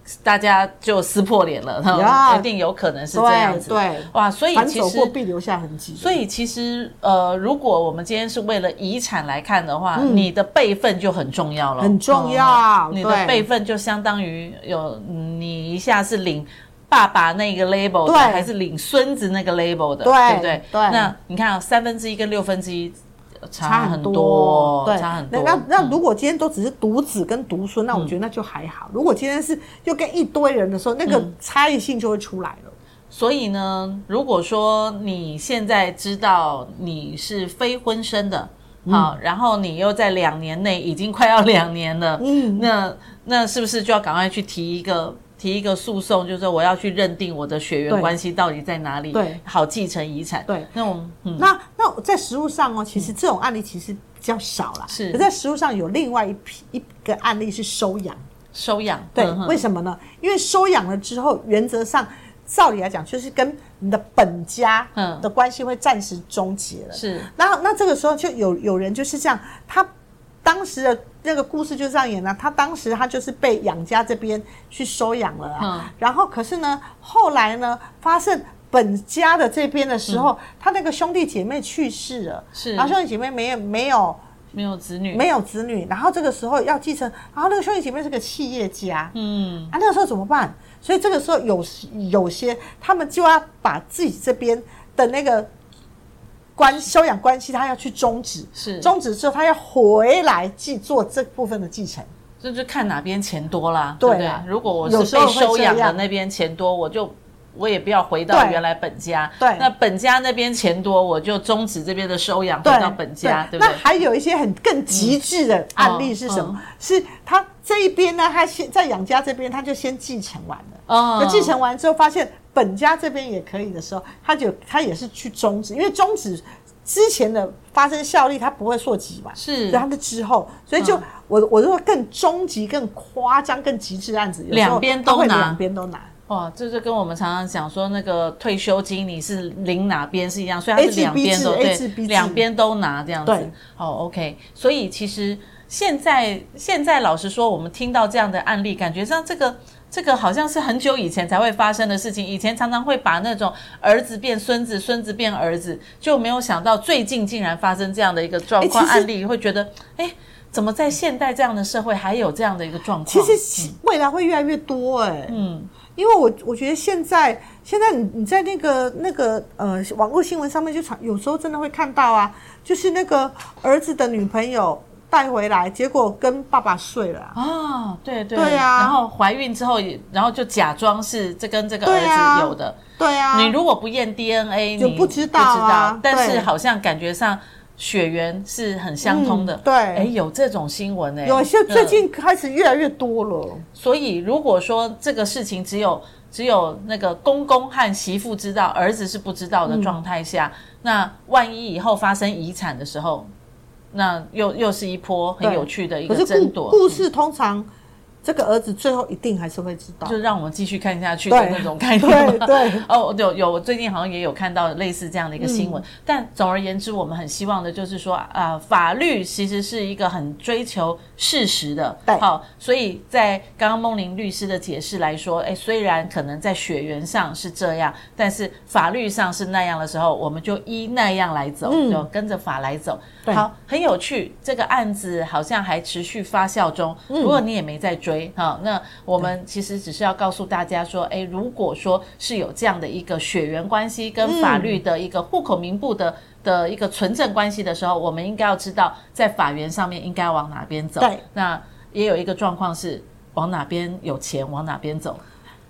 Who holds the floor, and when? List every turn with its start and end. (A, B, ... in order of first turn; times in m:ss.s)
0:00.2-0:05.2 A
0:01.9-0:02.5 B
0:03.1-0:06.2 B
0:06.0-0:26.0 A
0:10.0-0:10.3 B
0:11.8-0:13.5 B
0:18.0-0:18.5 B
0:20.0-0:21.1 B
0:23.6-0:32.7 B
0:31.1-0:31.3 A
0:33.1-0:51.5 A
0:38.9-0:39.2 B
0:42.2-0:42.7 B
0:47.9-0:48.2 B
0:49.1-0:49.4 B
0:51.4-0:58.2 B
0:54.9-0:55.3 A
0:58.5-0:59.6 A
0:59.2-1:09.9 B
1:05.0-1:05.3 A
1:06.9-1:07.3 A
1:10.4-1:24.2 B
1:15.6-1:15.9 A
1:22.6-1:23.0 A
1:24.5-1:25.2 A
1:25.1-1:29.2 B
1:29.2-1:29.7 A
1:29.7-1:35.5 B
1:36.6-1:42.1 B
1:38.6-1:38.9 A
1:42.4-1:53.8 A
1:44.0-1:46.0 B
1:48.3-1:48.6 B
1:49.4-1:49.7 B
1:52.6-2:16.1 B
1:54.9-1:55.2 A
1:55.8-1:56.6 A
2:00.9-2:01.5 A
2:09.4-2:09.8 A
2:10.8-2:11.0 A
2:14.5-2:15.6 A
2:16.3-2:43.8 A
2:20.8-2:22.4 B
2:23.2-2:23.5 B
2:38.6-2:39.1 B
2:43.1-2:45.4 B
2:45.3-2:45.7 A
2:46.0-2:57.4 B
2:57.4-3:02.8 A
2:58.4-2:59.0 B
3:01.8-3:03.6 B
3:03.3-3:12.0 A
3:04.8-3:06.5 B
3:09.0-3:10.1 B
3:11.2-3:13.6 B
3:13.8-3:23.3 A
3:19.7-3:19.9 B
3:23.9-3:27.0 A
3:25.4-3:27.7 B
3:28.2-3:30.2 B
3:30.0-4:15.2 A
3:31.3-3:32.8 B
3:35.4-3:35.8 B
3:51.6-3:52.1 B
3:57.1-3:57.4 B
4:04.2-4:04.8 B